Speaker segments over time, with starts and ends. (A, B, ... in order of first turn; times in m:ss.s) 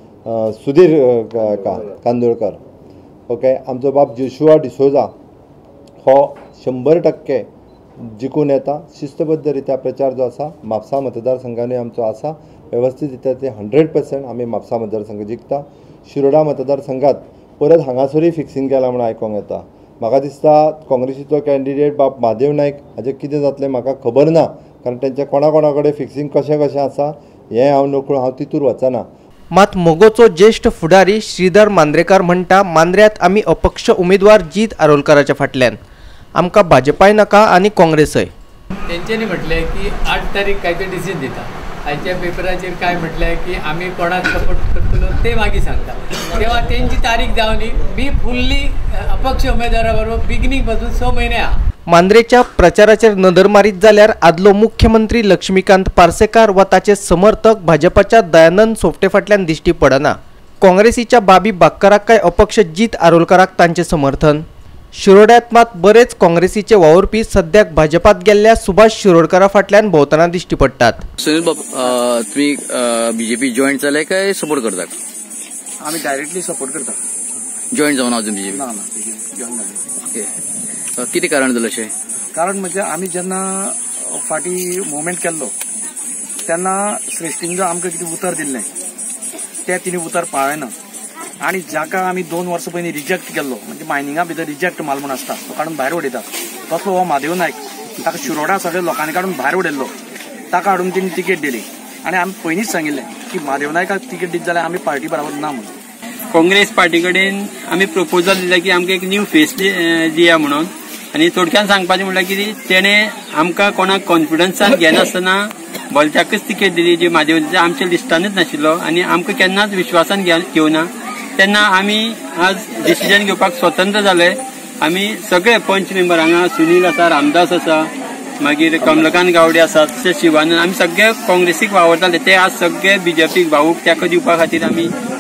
0:00.3-0:02.6 A
0:03.3-0:05.1 A
0:06.0-0:07.5 A
0:08.0-0:29.0 A
0:29.5-0:35.8 B
0:36.4-0:38.3 B
0:38.9-0:51.5 C
0:51.9-1:04.4 B
1:05.0-1:11.0 B
1:11.2-1:15.0 D
1:15.8-1:17.0 E
1:17.7-1:18.6 D
1:18.6-1:19.8 E
1:21.0-1:21.9 D
1:22.4-1:25.5 E
1:26.5-1:28.7 E
1:29.7-1:30.7 E
1:31.4-1:39.9 E
1:40.5-1:45.7 E
1:46.3-2:07.9 F
2:08.4-2:14.9 F